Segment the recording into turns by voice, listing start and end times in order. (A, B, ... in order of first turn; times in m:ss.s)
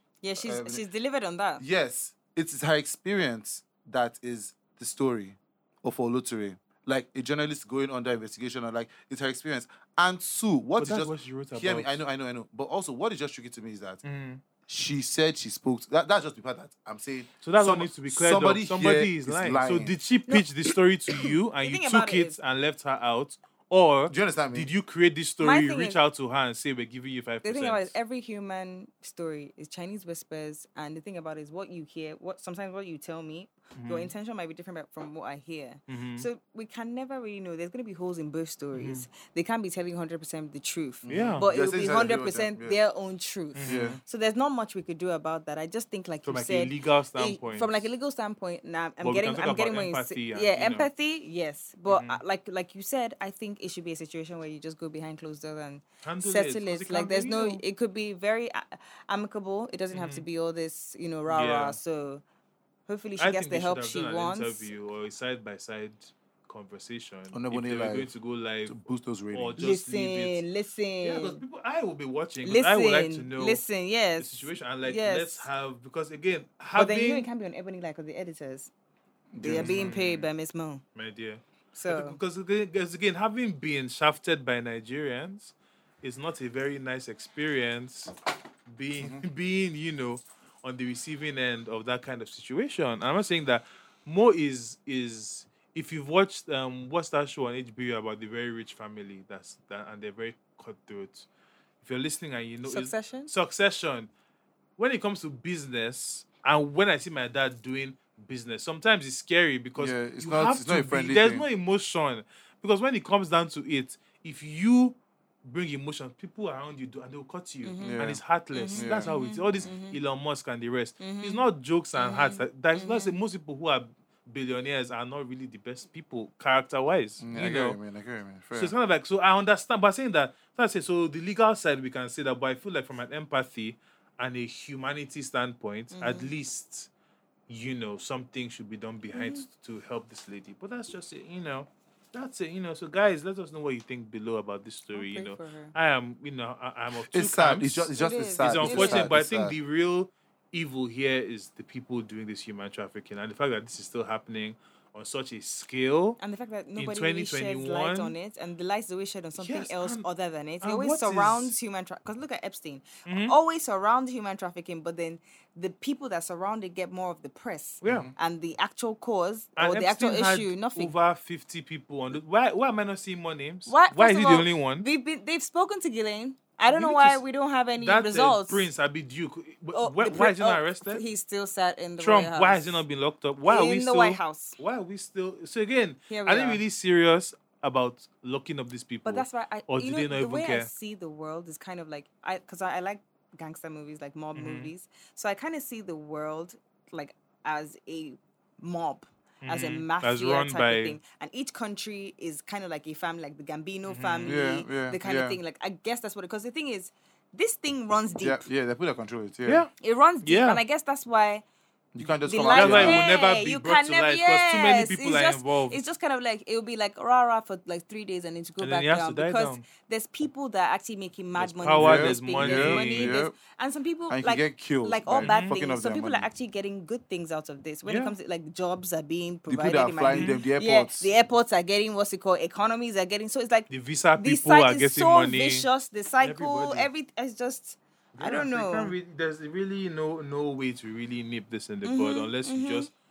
0:00.2-0:01.6 A
0:00.4-0:00.8 B
0:01.6-0:14.0 B
0:10.8-0:12.0 C
0:14.0-0:14.4 C
0:14.7-0:19.9 B
0:17.4-0:28.0 C
0:21.1-0:22.4 A
0:24.1-0:24.7 B
0:25.4-0:26.0 A
0:27.4-1:02.2 A
0:33.8-0:34.1 C
0:35.9-0:36.3 C
0:38.7-0:39.0 C
0:41.0-0:42.8 B
0:41.1-0:41.5 C
0:43.6-0:44.0 C
0:43.6-0:44.0 B
0:46.2-0:47.9 C
0:49.0-0:50.9 C
0:51.9-0:52.2 C
0:56.0-0:57.6 C
0:59.9-1:00.2 C
1:01.3-1:01.8 C
1:02.9-1:04.7 A
1:03.2-1:08.8 C
1:07.3-1:08.1 B
1:08.7-1:09.6 B
1:09.3-1:10.4 C
1:09.6-1:11.4 A
1:11.0-1:13.6 C
1:12.4-1:15.5 A
1:14.2-1:17.3 C
1:16.8-1:18.7 A
1:19.3-1:20.0 B
1:19.4-1:20.8 A
1:19.5-1:20.3 C
1:21.0-1:28.2 C
1:21.7-1:22.2 A
1:28.7-1:41.3 C
1:29.0-1:29.2 B
1:41.8-1:44.1 C
1:42.6-1:43.3 A
1:44.8-2:07.8 C
1:49.8-1:51.5 B
1:57.6-2:00.0 A
1:57.8-1:59.1 B
2:01.0-2:01.4 A
2:02.0-2:03.2 A
2:07.2-2:08.7 B
2:08.5-2:16.9 C
2:15.9-2:16.3 A
2:17.5-2:36.2 C
2:19.1-2:19.5 A
2:24.9-2:25.7 A
2:27.1-2:29.6 B
2:28.0-2:29.1 A
2:36.2-2:50.9 A
2:36.8-2:38.2 C
2:39.4-2:40.0 C
2:40.6-2:41.5 C
2:43.1-2:43.4 C
2:47.8-2:48.1 C
2:47.8-2:48.1 B
2:49.6-2:54.9 C
2:53.7-2:58.7 A
2:56.7-2:57.2 C
2:57.8-3:01.0 C
2:59.7-3:02.8 A
3:02.0-3:10.7 C
3:03.4-3:04.6 A
3:06.1-3:06.6 A
3:09.0-3:28.4 A
3:14.4-3:14.7 C
3:19.4-3:21.0 C
3:23.9-3:24.4 C
3:24.2-3:25.4 B
3:28.2-3:29.7 B
3:29.8-3:31.4 A
3:30.2-3:30.6 C
3:32.0-3:33.1 B
3:32.2-3:59.0 A
3:32.5-3:35.8 C
3:38.6-3:39.6 C
3:41.4-3:43.2 C
3:41.8-3:43.4 B
3:44.1-3:46.3 B
3:45.2-3:45.6 C
3:47.8-3:48.2 C
3:49.5-3:51.1 B
3:50.1-3:50.4 C
3:53.7-3:55.7 C
3:56.2-3:56.9 C
3:58.2-4:02.9 C
4:01.8-4:02.9 A